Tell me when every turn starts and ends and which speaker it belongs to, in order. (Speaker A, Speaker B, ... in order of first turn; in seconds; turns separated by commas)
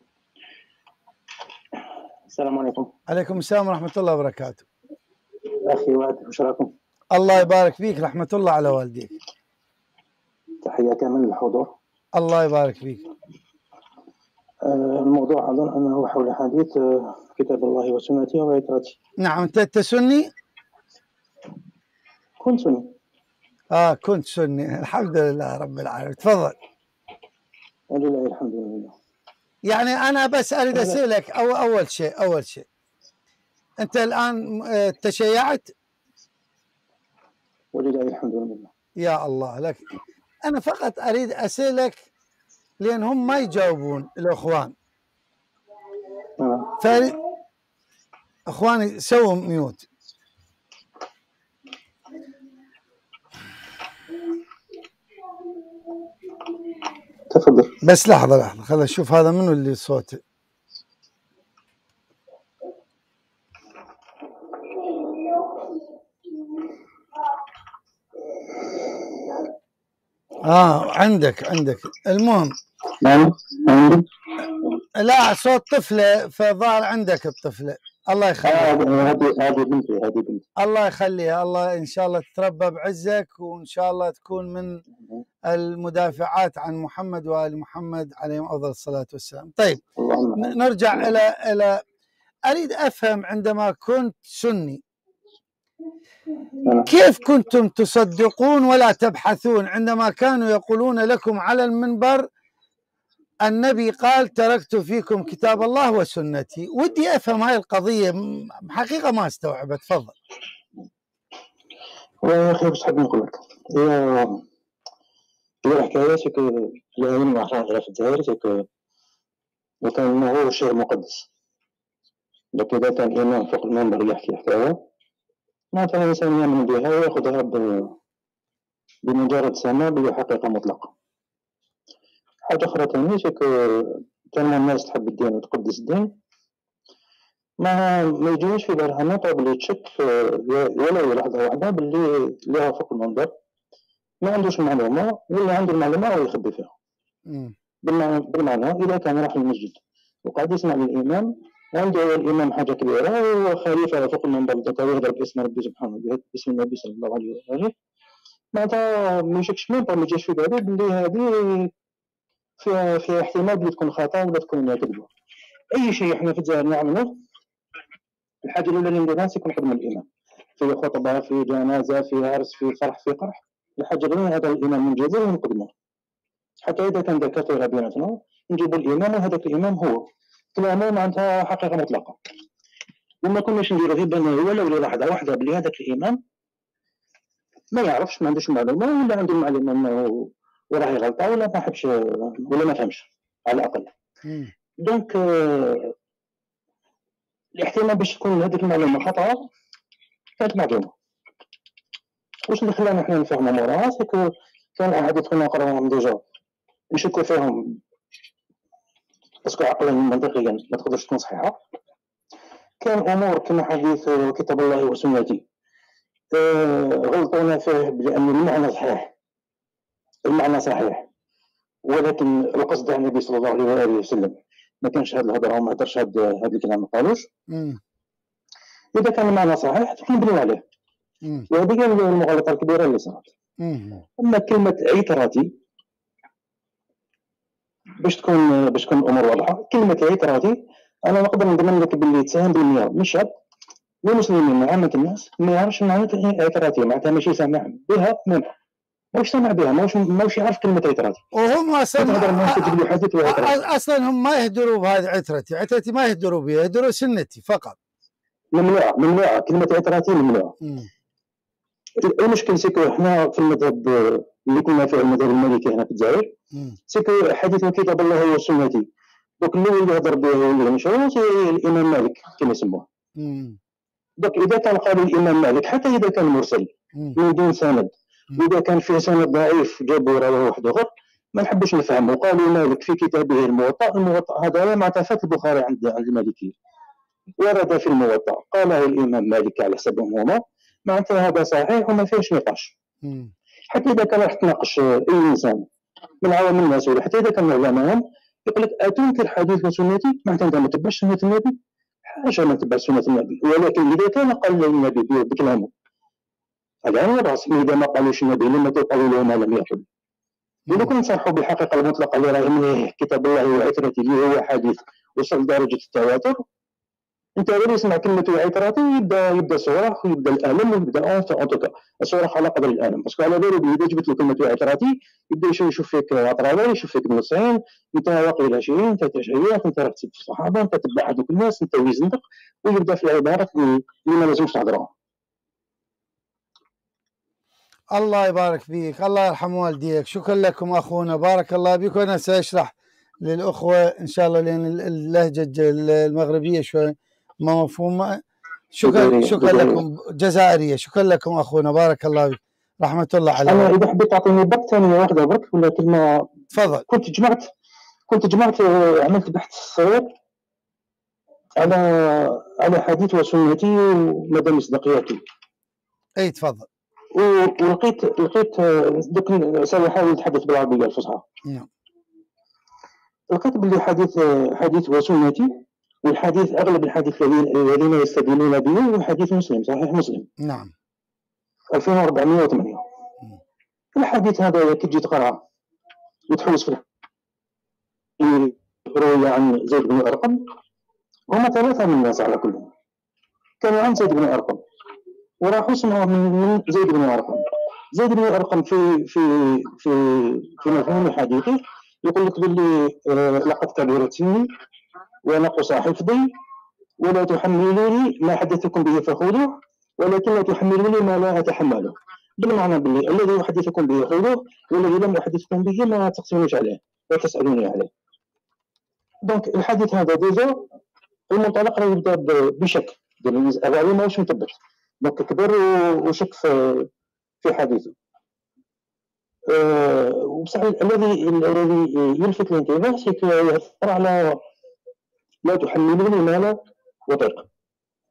Speaker A: 2.3-2.9, Speaker B: 3.1-4.7, Speaker A: 5.7-6.7, Speaker B: 7.1-9.1, Speaker A: 10.6-11.7, Speaker B: 12.2-13.1, Speaker A: 14.7-19.0, Speaker B: 19.2-20.3, Speaker A: 22.4-22.9, Speaker B: 23.7-26.6, Speaker A: 27.9-29.0, Speaker B: 29.7-32.7, Speaker A: 30.7-31.0, Speaker B: 33.8-35.7, Speaker A: 37.7-38.7, Speaker B: 39.0-39.9, Speaker B: 40.5-42.1, Speaker B: 42.8-44.8, Speaker A: 46.4-46.8, Speaker B: 46.8-47.2, Speaker B: 48.5-49.8, Speaker A: 57.3-57.7, Speaker B: 57.8-60.2, Speaker B: 70.4-72.6, Speaker A: 73.0-74.0, Speaker B: 75.0-78.8, Speaker A: 78.4-80.4, Speaker B: 80.6-84.8, Speaker B: 85.5-89.8, Speaker A: 90.0-91.1, Speaker B: 90.4-91.8, Speaker B: 92.5-94.8, Speaker A: 96.6-96.9, Speaker B: 96.9-102.3, Speaker B: 103.5-110.2, Speaker A: 112.2-114.4, Speaker A: 115.7-118.7, Speaker A: 119.8-121.3, Speaker A: 122.6-124.8, Speaker A: 125.7-128.0, Speaker A: 129.1-130.9, Speaker A: 132.5-136.1, Speaker A: 137.6-143.3, Speaker A: 144.2-146.7, Speaker B: 147.3-147.6, Speaker A: 147.8-157.7, Speaker A: 158.5-161.7, Speaker A: 162.6-165.1, Speaker A: 165.7-167.2, Speaker A: 168.4-170.1, Speaker A: 170.6-175.7, Speaker A: 176.7-180.0, Speaker A: 180.6-182.2, Speaker A: 183.2-186.2, Speaker A: 187.7-193.9, Speaker B: 194.3-194.5, Speaker A: 194.8-195.9, Speaker A: 197.6-199.4, Speaker A: 200.4-200.9, Speaker A: 202.5-206.2, Speaker A: 206.9-207.8, Speaker A: 209.4-211.6, Speaker A: 212.8-215.4, Speaker A: 216.3-219.1, Speaker A: 220.3-221.1, Speaker A: 221.9-227.3, Speaker B: 227.5-227.8, Speaker A: 228.9-230.6, Speaker A: 231.5-233.3, Speaker B: 233.6-234.1, Speaker A: 234.2-235.5, Speaker A: 238.0-243.3, Speaker A: 244.1-248.5, Speaker A: 249.1-251.2, Speaker B: 251.3-257.8, Speaker A: 252.0-253.6, Speaker A: 258.5-260.5, Speaker B: 260.6-260.9, Speaker A: 262.0-266.3, Speaker A: 266.9-268.9, Speaker A: 269.4-272.9, Speaker B: 273.2-273.6, Speaker A: 274.2-286.6, Speaker A: 287.4-292.7, Speaker B: 293.0-293.3, Speaker A: 293.7-295.6, Speaker A: 296.2-301.5, Speaker A: 302.1-305.7, Speaker A: 306.9-309.9, Speaker A: 310.7-316.4, Speaker A: 317.4-334.9, Speaker B: 337.9-348.2, Speaker B: 348.7-353.7, Speaker A: 348.8-349.8, Speaker A: 353.5-356.3, Speaker B: 356.5-356.9, Speaker A: 356.9-357.5, Speaker A: 358.1-360.1, Speaker A: 361.6-365.2, Speaker B: 366.2-366.7, Speaker A: 367.1-371.2, Speaker A: 373.3-375.5, Speaker A: 376.0-380.3, Speaker B: 380.4-380.7, Speaker A: 381.7-382.8, Speaker A: 384.0-385.4, Speaker A: 386.3-386.8, Speaker A: 388.2-390.4, Speaker A: 391.3-392.7, Speaker A: 393.6-394.6, Speaker A: 395.4-404.5, Speaker A: 405.3-406.3, Speaker A: 407.0-417.9, Speaker A: 419.2-420.6, Speaker A: 421.3-426.9, Speaker A: 427.4-427.9, Speaker A: 429.5-434.4, Speaker A: 435.4-437.5